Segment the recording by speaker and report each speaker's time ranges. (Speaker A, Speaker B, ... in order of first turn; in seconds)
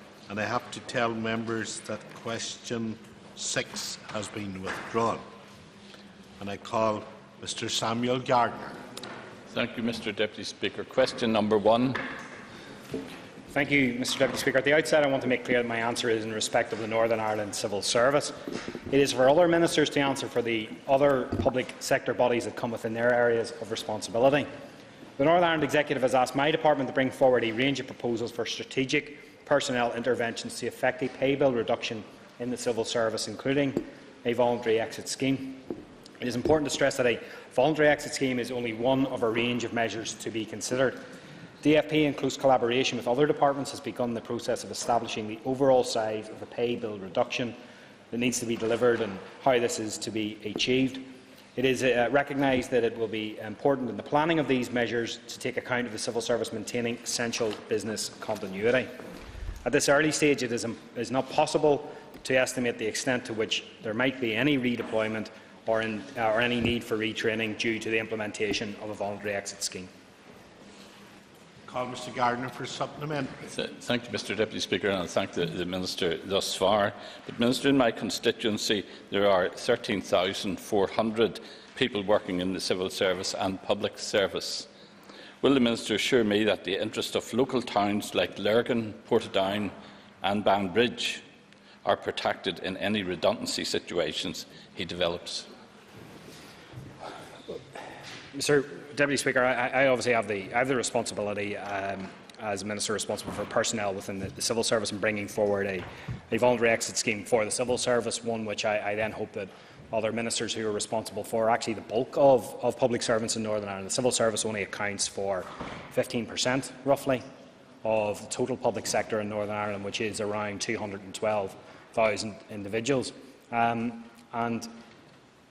Speaker A: 0.3-5.2, 6.4-8.8, 71.7-73.4
Speaker B: 9.5-12.0, 73.5-84.7, 85.4-91.2, 91.8-95.5
Speaker C: 13.5-18.4, 18.9-24.5, 25.2-35.7, 36.2-41.0, 41.6-47.6, 48.1-58.9, 59.6-69.9, 98.3-117.2, 117.8-124.7